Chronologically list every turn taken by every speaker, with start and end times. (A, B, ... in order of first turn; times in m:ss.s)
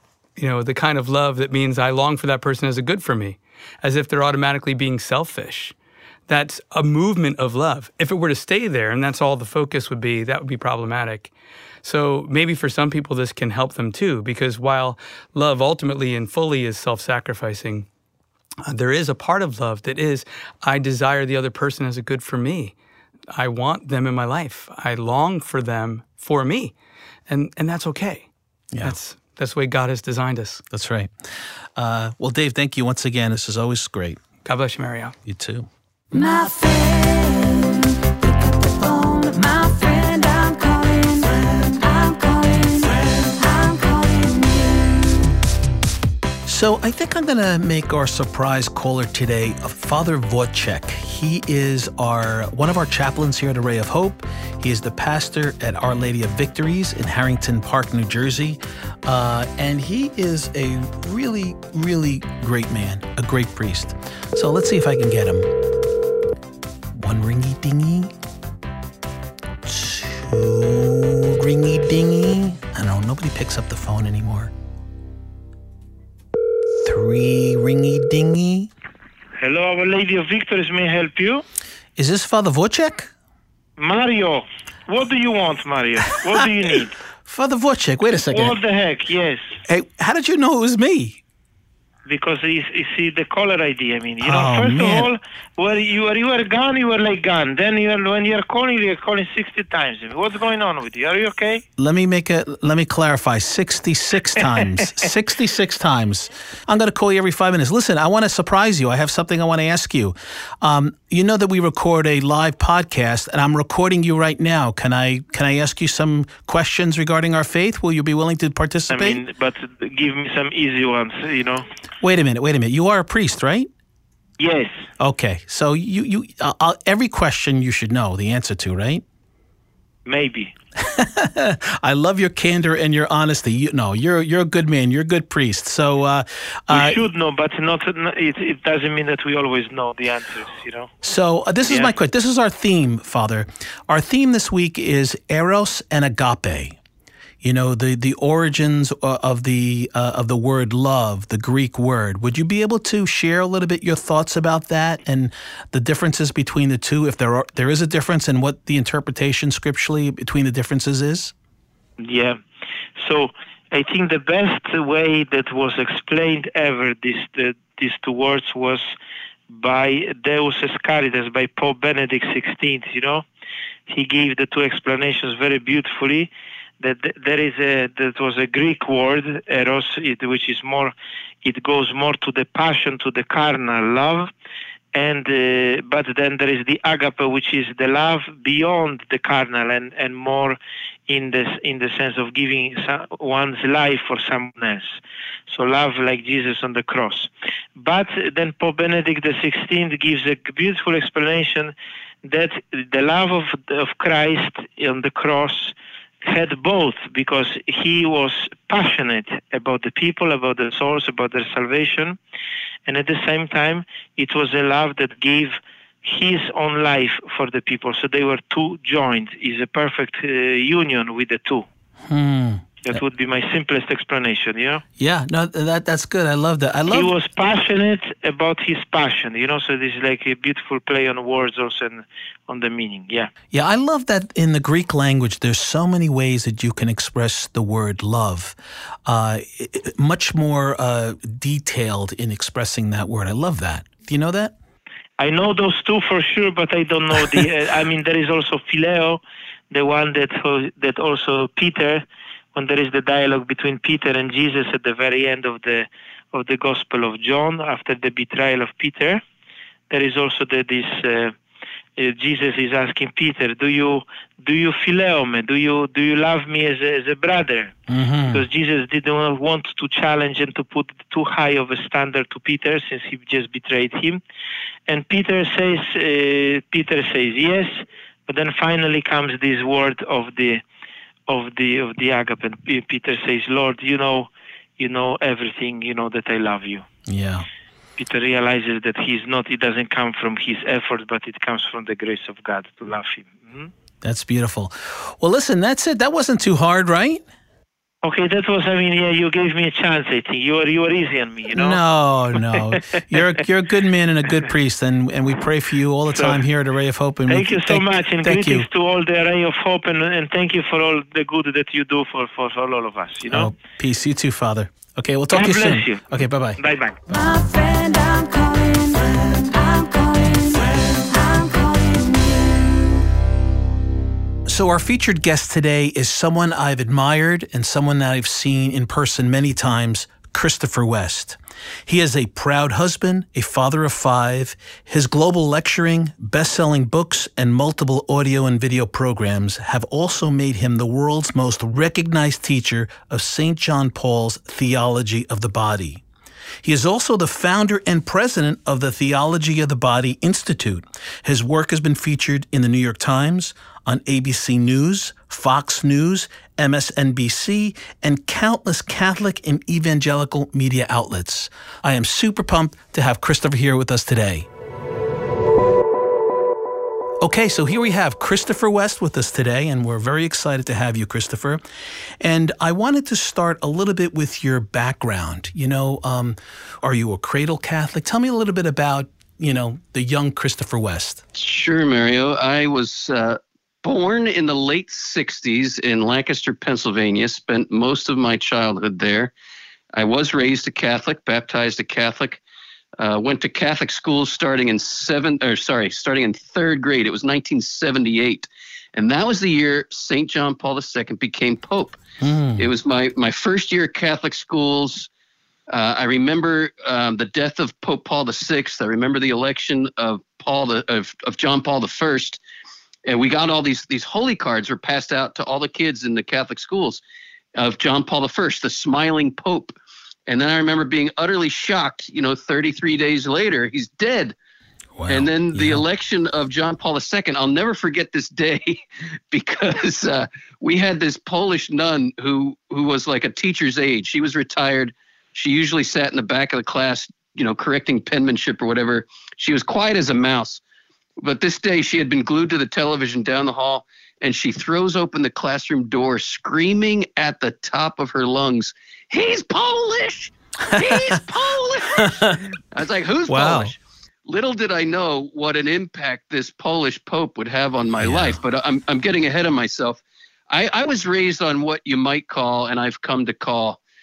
0:00.4-0:05.8 A
0:06.3-0:11.3 A
0:11.8-0:17.9 A
0:18.7-0:22.8 A
0:23.3-0:26.7 A
0:27.3-0:28.3 A
0:28.8-0:30.6 A
0:30.7-0:31.1 B
0:31.8-0:34.2 B
0:34.4-0:35.2 A
0:35.2-0:35.7 B
0:36.1-0:45.4 C
0:46.5-1:05.5 B
1:07.0-1:08.1 B
1:09.6-1:14.5 B
1:16.8-1:18.7 B
1:19.4-1:21.4 D
1:22.0-1:23.1 B
1:23.8-1:27.0 D
1:27.2-1:28.6 B
1:28.3-1:29.4 D
1:29.7-1:31.2 B
1:32.1-1:41.6 D
1:34.2-1:35.1 B
1:41.8-1:59.2 B
1:58.9-2:01.7 D
2:02.0-2:03.7 B
2:04.4-2:04.7 D
2:05.0-2:09.0 B
2:10.1-2:10.5 D
2:10.8-2:17.1 B
2:16.7-2:20.9 D
2:21.0-2:26.8 B
2:27.4-2:41.3 B
2:42.0-2:42.4 D
2:43.0-2:48.8 D
2:49.5-2:53.2 D
2:53.9-2:56.3 D
2:56.8-3:04.3 D
3:04.9-3:10.6 D
3:11.1-3:15.0 D
3:15.5-3:21.7 D
3:22.2-3:32.2 D
3:32.9-3:41.6 D
3:42.1-3:43.0 B
3:42.8-3:44.8 D
3:45.0-3:47.1 B
3:46.9-3:53.3 D
3:53.5-3:58.6 B
3:59.1-4:04.6 B
4:05.2-4:19.2 D
4:19.9-4:21.4 D
4:22.0-4:27.7 D
4:27.9-4:28.4 B
4:28.3-4:34.2 D
4:34.9-4:40.6 D
4:41.3-4:46.8 D
4:47.1-4:47.5 B
4:48.0-4:53.7 D
4:54.0-4:57.2 B
4:58.0-5:01.8 D
5:01.5-5:08.7 B
5:02.4-5:02.6 D
5:06.2-5:06.4 D
5:07.3-5:13.5 D
5:13.3-5:16.6 B
5:15.3-5:16.0 D
5:16.6-5:17.0 D
5:17.1-5:23.0 C
5:24.5-5:46.0 B
5:46.6-6:04.5 B
6:07.2-6:11.6 B
6:12.2-6:21.2 B
6:21.4-6:29.3 E
6:29.9-6:32.4 E
6:33.0-6:42.0 E
6:42.2-6:42.7 B
6:42.6-6:45.1 E
6:45.7-6:52.4 E
6:53.1-6:57.0 E
6:57.6-6:59.7 E
7:00.3-7:04.4 E
7:05.0-7:05.8 B
7:05.1-7:20.6 E
7:21.2-7:43.8 E
7:30.7-7:31.2 B
7:32.0-7:32.4 B
7:33.3-7:33.7 B
7:38.0-7:38.4 B